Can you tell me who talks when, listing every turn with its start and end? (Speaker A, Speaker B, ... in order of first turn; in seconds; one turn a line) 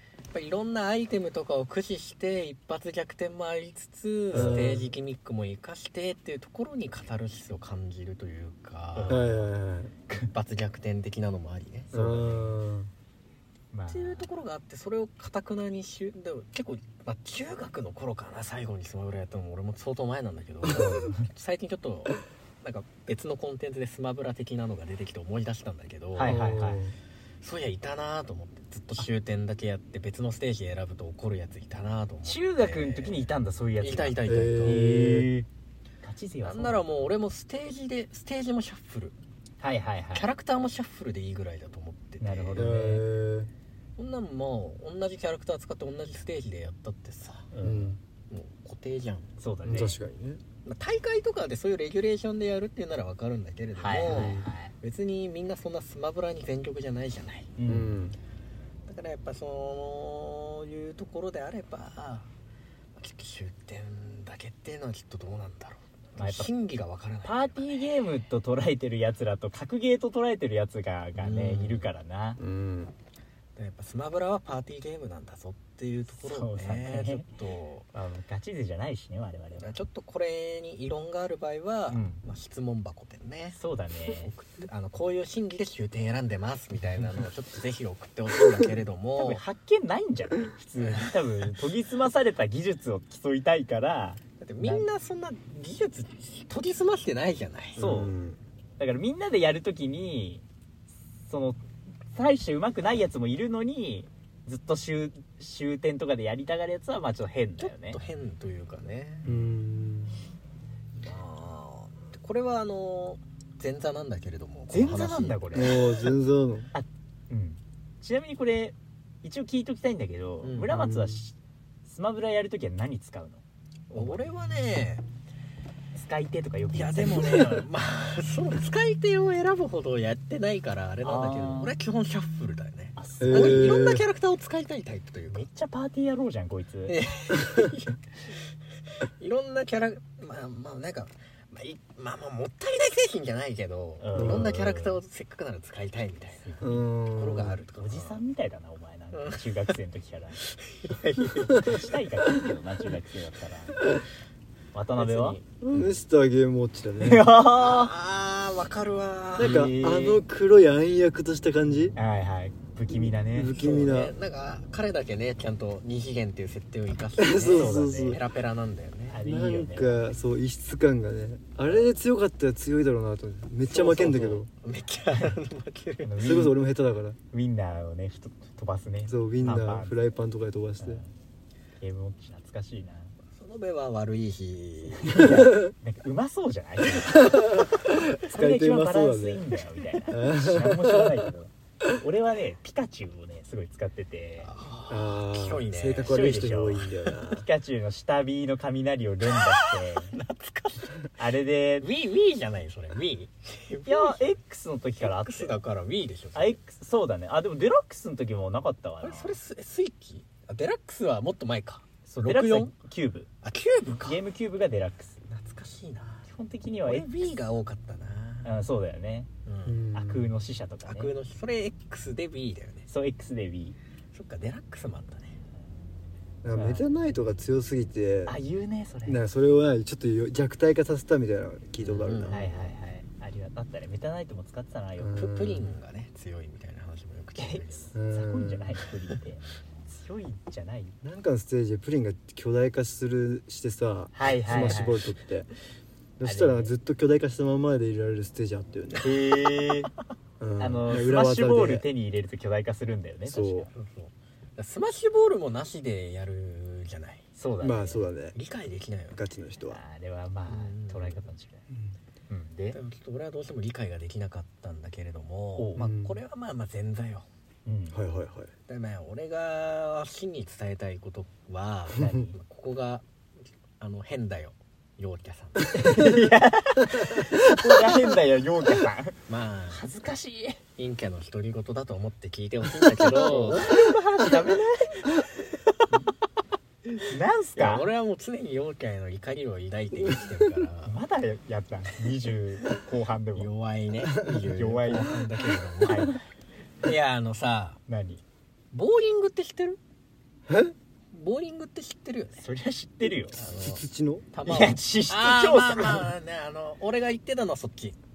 Speaker A: 0.3-9.4
Speaker B: 4.3-4.8
Speaker C: 4.3-4.9
Speaker B: 8.9-9.4
Speaker C: 9.1-9.9
Speaker A: 10.1-11.9
Speaker B: 11.9-12.5
Speaker C: 11.9-12.9
Speaker B: 13.7-14.3
Speaker A: 13.9-26.4
Speaker B: 20.6-21.3
Speaker B: 26.1-26.8
Speaker C: 26.2-26.9
Speaker A: 27.4-34.8
Speaker B: 32.2-35.5
Speaker C: 34.3-35.3
Speaker B: 36.0-37.1
Speaker A: 36.4-39.1
Speaker B: 39.6-40.3
Speaker A: 40.1-42.7
Speaker B: 42.2-43.1
Speaker C: 42.6-43.5
Speaker A: 44.0-47.5
Speaker B: 47.5-48.0
Speaker C: 47.6-48.0
Speaker A: 48.3-49.9
Speaker B: 49.4-50.0
Speaker C: 49.6-50.4
Speaker A: 50.6-57.5
Speaker B: 53.8-54.7
Speaker C: 54.1-54.5
Speaker B: 57.6-58.0
Speaker C: 57.6-58.2
Speaker A: 58.9-62.3
Speaker A: 63.0-67.9
Speaker B: 66.2-66.5
Speaker B: 67.2-72.4
Speaker A: 71.2-71.9
Speaker C: 72.4-72.9
Speaker A: 73.6-77.9
Speaker B: 76.1-77.3
Speaker B: 77.9-79.8
Speaker A: 79.6-89.4
Speaker B: 81.9-82.2
Speaker B: 83.5-84.3
Speaker B: 89.2-94.9
Speaker A: 90.8-91.1
Speaker A: 94.4-97.9
Speaker B: 97.8-98.1
Speaker C: 97.8-98.4
Speaker B: 98.8-100.4
Speaker B: 101.2-101.6
Speaker B: 102.1-108.0
Speaker A: 107.6-109.2
Speaker C: 109.2-110.2
Speaker B: 109.2-109.6
Speaker A: 111.0-115.6
Speaker B: 114.7-116.1
Speaker C: 115.5-116.7
Speaker B: 116.7-124.4
Speaker A: 120.4-120.7
Speaker C: 120.7-121.2
Speaker A: 123.9-125.0
Speaker B: 125.9-127.7
Speaker A: 126.7-135.5
Speaker B: 131.0-131.8
Speaker B: 133.0-133.8
Speaker C: 133.2-134.1
Speaker B: 135.3-137.0
Speaker A: 136.9-138.0
Speaker A: 139.2-148.2
Speaker B: 144.0-145.0
Speaker C: 144.1-144.5
Speaker B: 146.4-146.8
Speaker C: 146.6-147.6
Speaker B: 147.8-150.4
Speaker A: 149.1-149.8
Speaker A: 150.5-151.7
Speaker B: 151.5-153.8
Speaker B: 154.7-155.4
Speaker A: 155.0-155.9
Speaker C: 155.6-157.3
Speaker B: 157.0-157.9
Speaker A: 157.6-159.7
Speaker C: 159.4-161.9
Speaker B: 159.4-160.2
Speaker B: 161.9-163.6
Speaker C: 162.9-164.2
Speaker A: 163.6-169.2
Speaker C: 167.2-168.2
Speaker B: 167.4-168.2
Speaker B: 169.1-170.0
Speaker C: 169.2-174.5
Speaker A: 173.7-176.1
Speaker B: 176.0-176.6
Speaker C: 176.2-177.2
Speaker B: 177.3-180.0
Speaker C: 179.1-181.0
Speaker B: 180.8-181.1
Speaker B: 181.8-183.1
Speaker A: 183.3-185.3
Speaker B: 185.0-187.5
Speaker C: 185.2-185.7
Speaker C: 187.1-189.4
Speaker B: 188.3-194.5
Speaker C: 190.1-191.3
Speaker A: 194.4-197.1
Speaker C: 194.9-197.4
Speaker B: 196.0-200.2
Speaker A: 199.3-201.0
Speaker B: 201.1-201.9
Speaker A: 201.8-204.3
Speaker B: 203.8-205.6
Speaker A: 205.0-206.6
Speaker B: 206.3-209.4
Speaker A: 209.0-212.7
Speaker B: 212.1-213.3
Speaker A: 213.4-214.2
Speaker B: 213.9-215.2
Speaker A: 215.3-216.2
Speaker B: 216.2-217.1
Speaker A: 216.8-218.6
Speaker B: 218.4-219.3
Speaker A: 219.4-219.8
Speaker C: 219.7-220.3
Speaker B: 219.9-221.2
Speaker A: 220.8-222.8
Speaker B: 222.9-223.8
Speaker A: 224.1-225.3
Speaker C: 226.4-228.3
Speaker B: 226.6-226.9
Speaker B: 228.2-229.2
Speaker C: 229.1-232.5
Speaker A: 231.8-232.6
Speaker B: 232.3-235.2
Speaker C: 235.0-235.7
Speaker A: 235.1-237.9
Speaker B: 237.4-240.9
Speaker C: 237.9-238.8
Speaker C: 241.0-245.5
Speaker B: 244.1-245.1
Speaker C: 246.2-249.2
Speaker B: 246.2-246.7
Speaker B: 249.0-249.9
Speaker C: 250.4-251.8
Speaker B: 250.6-253.7
Speaker C: 253.3-253.7
Speaker A: 253.7-257.2
Speaker B: 257.4-258.1
Speaker C: 257.6-258.4
Speaker A: 258.3-259.2
Speaker C: 259.1-259.8
Speaker B: 259.7-261.6
Speaker A: 260.5-261.2
Speaker B: 262.3-262.8
Speaker A: 262.7-267.3
Speaker B: 265.6-265.9
Speaker C: 265.7-266.2
Speaker B: 267.7-268.0
Speaker C: 267.9-268.5
Speaker A: 268.7-273.1
Speaker B: 272.0-272.4
Speaker A: 273.8-275.9
Speaker B: 275.7-279.1
Speaker A: 279.3-279.8
Speaker B: 279.7-280.6
Speaker A: 280.8-283.8
Speaker B: 283.0-285.1
Speaker B: 287.0-287.9
Speaker A: 287.6-291.0
Speaker C: 290.0-290.4
Speaker B: 290.8-293.5
Speaker A: 293.3-296.2
Speaker B: 294.5-295.2
Speaker B: 295.8-296.2
Speaker A: 296.8-297.8
Speaker B: 297.9-298.2
Speaker A: 298.7-299.8
Speaker C: 300.5-300.7
Speaker A: 301.1-302.4
Speaker B: 302.4-303.4
Speaker A: 303.3-308.0
Speaker C: 303.5-304.3
Speaker B: 304.4-306.1